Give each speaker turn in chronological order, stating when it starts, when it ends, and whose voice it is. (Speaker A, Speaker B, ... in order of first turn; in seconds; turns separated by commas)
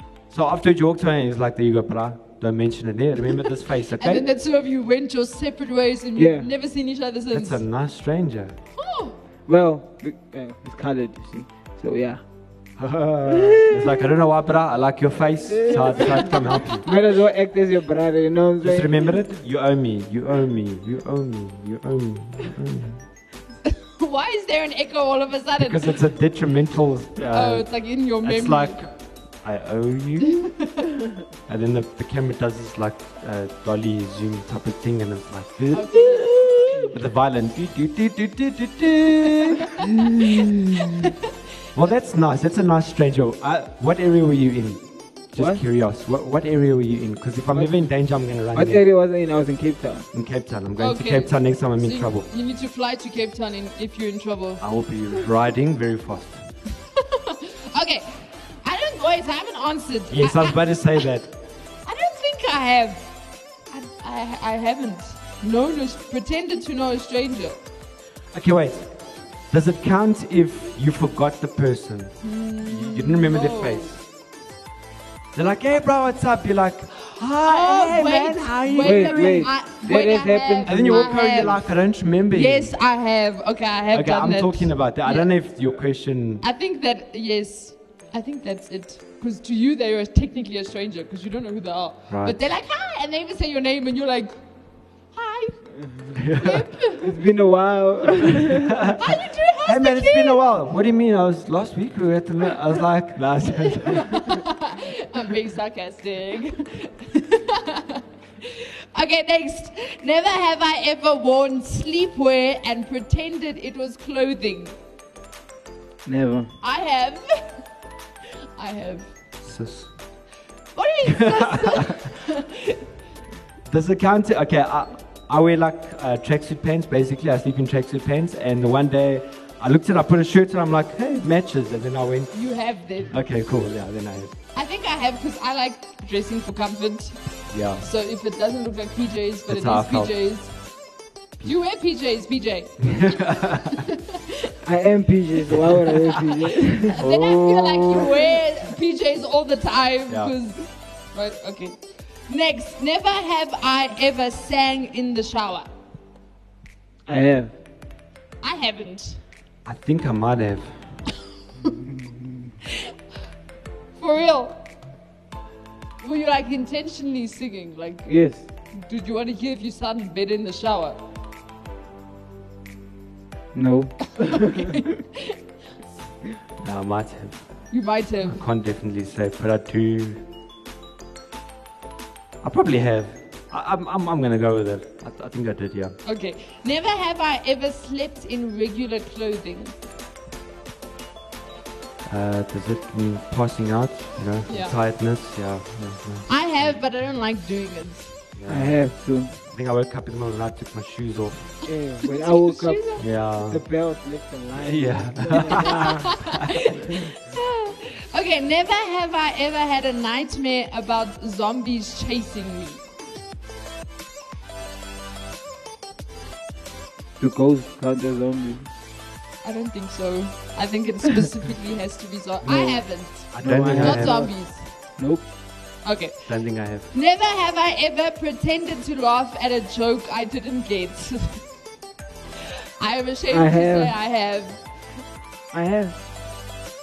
Speaker A: 0.3-4.2, Speaker B: 4.0-7.6, Speaker C: 6.2-6.5, Speaker A: 7.3-8.6, Speaker B: 8.7-9.2, Speaker C: 9.5-12.2, Speaker A: 12.8-16.9, Speaker C: 13.3-13.9, Speaker C: 15.5-19.1, Speaker A: 18.6-23.0, Speaker B: 23.6-26.0, Speaker A: 25.6-30.5, Speaker B: 27.3-28.8, Speaker B: 30.2-30.8, Speaker A: 31.5-41.1, Speaker B: 35.7-36.9, Speaker A: 41.7-48.8, Speaker C: 45.4-45.6, Speaker C: 47.5-50.0, Speaker A: 50.1-52.3, Speaker B: 50.8-54.6, Speaker A: 54.6-56.4, Speaker B: 57.0-61.0, Speaker A: 60.1-61.3, Speaker B: 61.8-63.1, Speaker B: 63.7-67.6, Speaker A: 68.3-68.9, Speaker A: 69.5-74.0, Speaker B: 72.2-73.9, Speaker A: 75.3-79.5, Speaker B: 77.4-81.7, Speaker C: 78.8-81.5, Speaker A: 80.7-82.7, Speaker B: 82.3-85.3, Speaker A: 83.9-86.4, Speaker B: 86.4-94.4, Speaker A: 92.1-92.4, Speaker B: 95.1-97.1, Speaker A: 96.1-96.7, Speaker C: 97.0-98.8, Speaker A: 98.7-104.4, Speaker B: 99.0-100.4, Speaker B: 103.6-114.8, Speaker C: 116.0-116.5, Speaker B: 116.6-117.4, Speaker B: 118.6-119.1, Speaker A: 119.4-119.9, Speaker B: 120.7-122.8, Speaker A: 121.0-122.0, Speaker A: 123.7-132.5, Speaker B: 132.3-133.2, Speaker A: 133.1-134.3, Speaker B: 134.5-137.2, Speaker A: 137.5-137.9, Speaker B: 137.7-140.5, Speaker A: 139.5-140.2, Speaker B: 141.4-144.5, Speaker A: 142.8-143.8, Speaker C: 144.6-147.0, Speaker B: 146.9-155.7, Speaker A: 147.0-148.1, Speaker A: 150.1-150.3, Speaker C: 157.1-157.5, Speaker B: 158.4-159.2, Speaker A: 159.6-160.8, Speaker C: 161.8-162.2, Speaker B: 164.0-164.6, Speaker B: 166.0-171.0, Speaker C: 168.1-168.4, Speaker C: 173.5-174.4, Speaker B: 174.3-175.3, Speaker A: 176.6-177.6, Speaker B: 177.7-178.4, Speaker A: 178.2-180.2, Speaker A: 182.4-185.9, Speaker B: 186.0-189.7, Speaker A: 192.1-196.8, Speaker B: 194.5-194.7, Speaker B: 196.3-198.1, Speaker A: 198.3-198.8, Speaker C: 198.5-199.3, Speaker A: 199.5-201.6, Speaker C: 201.7-202.8, Speaker B: 202.0-203.1, Speaker A: 203.0-203.6, Speaker C: 203.4-206.2, Speaker A: 204.6-206.0, Speaker B: 205.7-212.8, Speaker C: 217.2-218.7, Speaker B: 219.4-224.7, Speaker A: 222.4-222.7, Speaker C: 222.5-224.4, Speaker A: 223.3-224.2, Speaker C: 224.9-225.3, Speaker B: 225.8-231.4, Speaker A: 226.2-226.9, Speaker B: 232.8-234.6, Speaker C: 233.3-233.9, Speaker C: 235.5-236.0